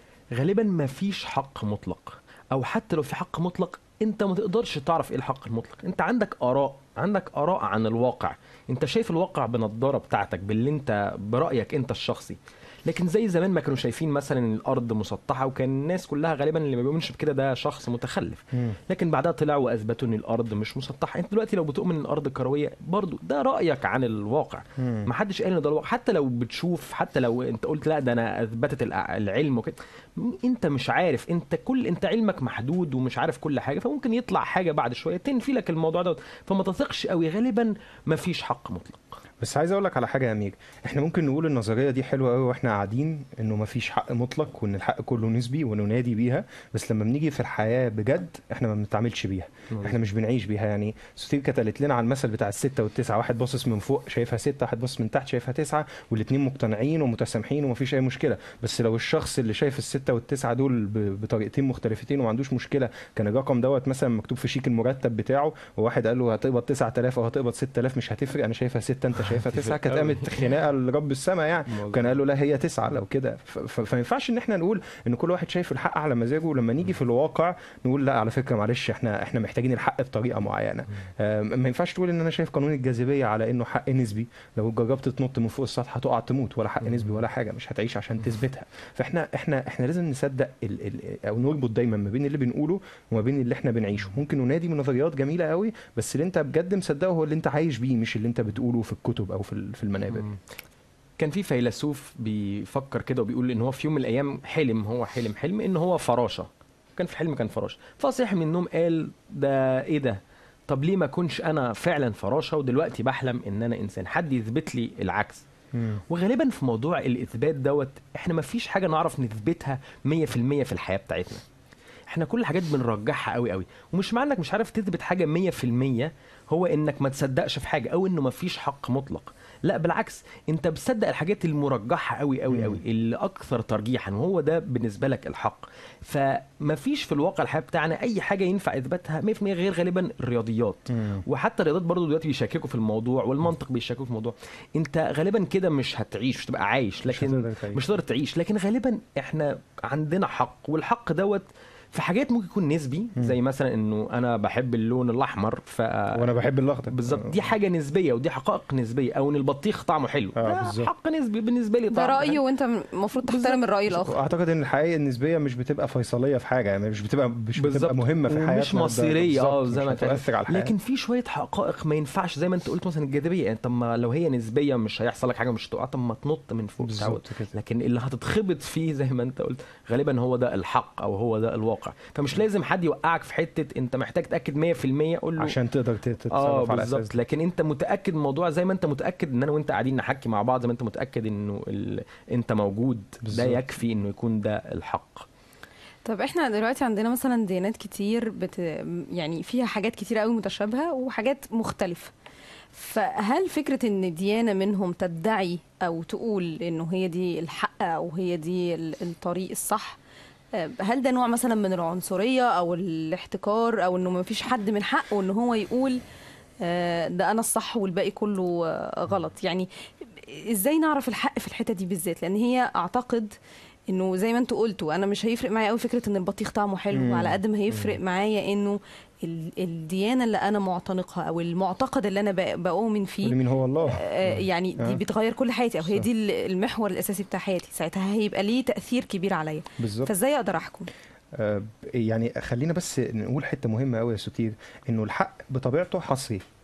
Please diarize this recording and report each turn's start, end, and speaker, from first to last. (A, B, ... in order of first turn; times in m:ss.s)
0:00.3-0:39.2 A
0:18.5-0:18.8 B
0:24.8-0:25.1 B
0:39.4-1:40.2 B
1:09.4-1:10.5 A
1:11.7-1:12.1 A
1:40.1-1:40.4 A
1:41.2-1:55.4 A
1:55.7-1:56.0 B
1:56.1-2:01.4 A
2:02.1-2:36.3 A
2:12.5-2:12.8 B
2:20.9-2:21.2 B
2:27.1-2:27.8 B
2:36.1-2:37.5 B
2:36.9-2:42.4 A
2:40.4-2:40.9 B
2:41.9-2:44.1 C
2:43.3-2:43.6 A
2:43.9-2:50.7 B
2:47.6-3:05.6 A
2:56.8-2:57.5 B
3:05.4-3:07.1 B
3:06.3-3:15.3 A
3:13.2-3:13.6 B
3:16.0-3:22.1 C
3:22.7-3:30.0 C
3:30.5-3:36.0 C
3:36.6-3:43.3 C
3:43.9-4:00.9 C
3:46.9-3:48.0 B
3:53.2-3:55.0 B
3:59.8-4:00.1 B
4:01.3-4:06.4 B